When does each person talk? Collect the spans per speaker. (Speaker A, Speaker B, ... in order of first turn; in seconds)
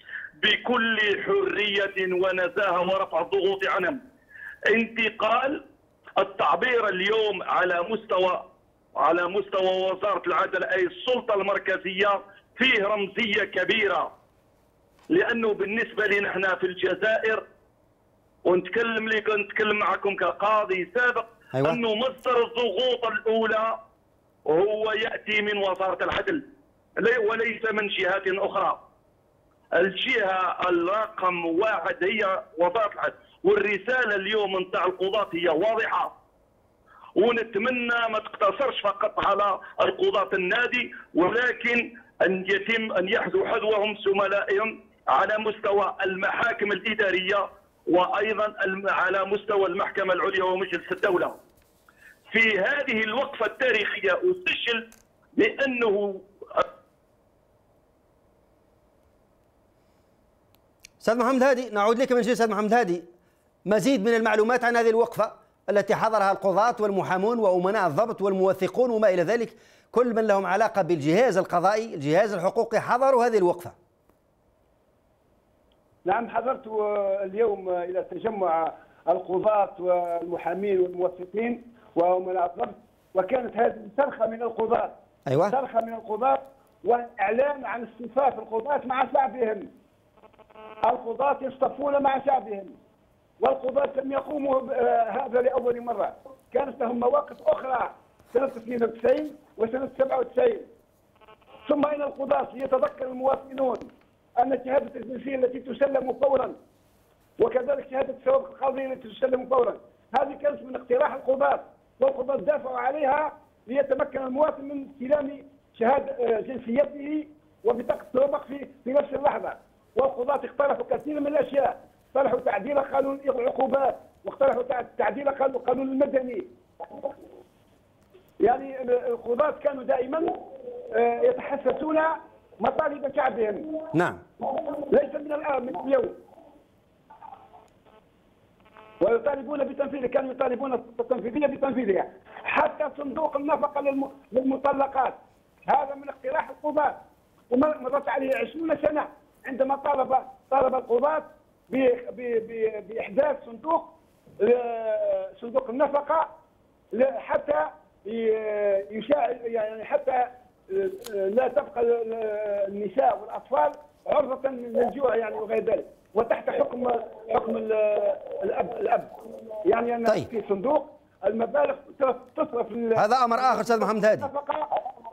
Speaker A: 0.4-4.0, 4.7-5.6, 6.2-8.4, 9.0-14.1, 15.1-17.4, 18.4-23.8, 24.4-26.4, 27.0-28.8, 29.7-36.1, 37.2-51.4, 52.3-54.9, 55.4-56.6
Speaker B: 21.5-21.8, 61.0-63.1, 63.6-73.8, 85.3-85.5, 133.9-134.2, 172.9-174.3
Speaker C: 76.0-84.9, 85.5-89.7, 90.8-92.8, 93.4-100.7, 101.7-106.6, 107.4-126.5, 128.4-130.4, 130.9-133.7, 134.6-136.2, 139.0-147.0, 147.5-156.3, 156.9-169.1, 169.6-174.7